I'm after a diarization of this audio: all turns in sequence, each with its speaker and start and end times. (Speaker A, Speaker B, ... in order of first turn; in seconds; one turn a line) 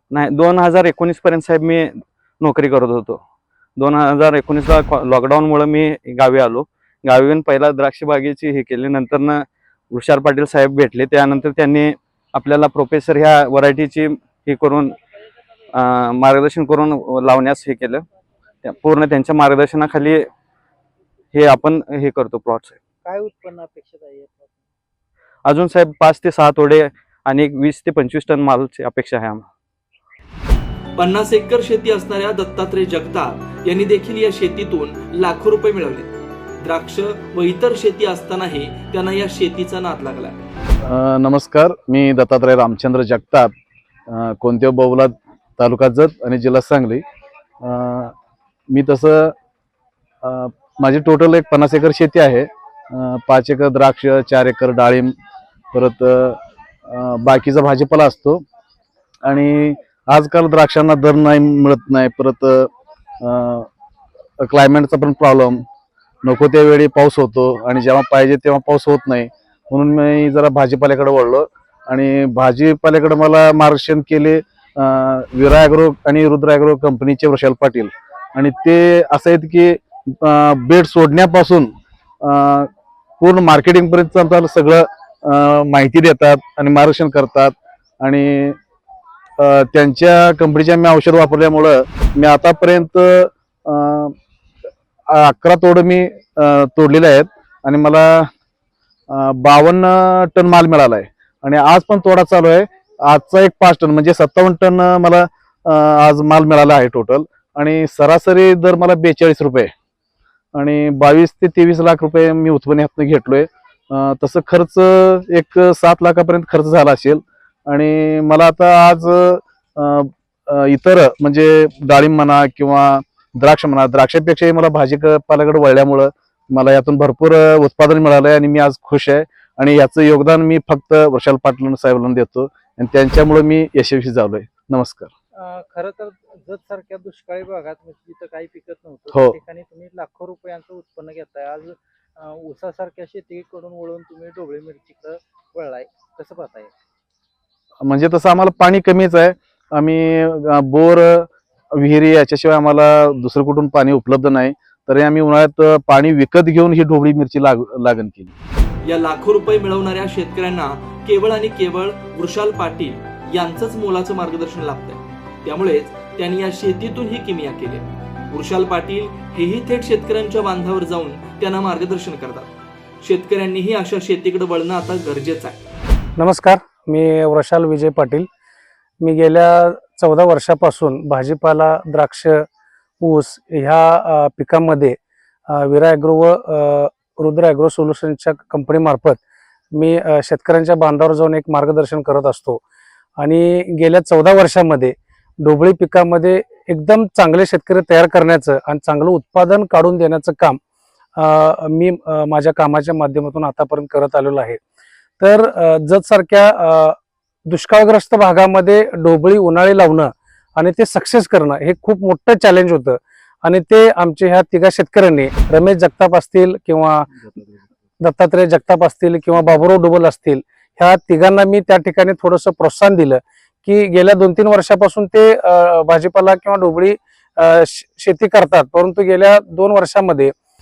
Speaker A: 0.1-3.2
Speaker A: 3.8-14.9
Speaker A: 15.7-18.0
Speaker A: 18.6-20.3
Speaker A: 21.3-22.7
Speaker B: 23.0-24.7
Speaker A: 25.4-29.4
Speaker C: 30.9-40.4
Speaker D: 40.8-43.5
Speaker D: 44.1-47.0
Speaker D: 47.6-48.1
Speaker D: 48.7-49.3
Speaker D: 50.2-55.1
Speaker D: 55.7-58.4
Speaker D: 59.2-62.7
Speaker D: 63.2-63.7
Speaker D: 64.4-65.6
Speaker D: 66.2-81.7
Speaker D: 82.2-88.6
Speaker D: 89.4-94.1
Speaker D: 95.1-98.3
Speaker D: 99.1-109.7
Speaker D: 110.5-135.1
Speaker B: 135.3-146.7
Speaker D: 147.8-158.3
Speaker C: 158.8-172.5
Speaker C: 173.0-175.6
Speaker E: 176.2-178.3
Speaker E: 179.0-182.4
Speaker E: 183.0-184.9
Speaker E: 185.5-189.2
Speaker E: 189.7-192.6
Speaker E: 193.2-200.6
Speaker E: 201.2-204.6
Speaker E: 205.2-206.9
Speaker E: 207.5-217.1
Speaker E: 218.0-230.3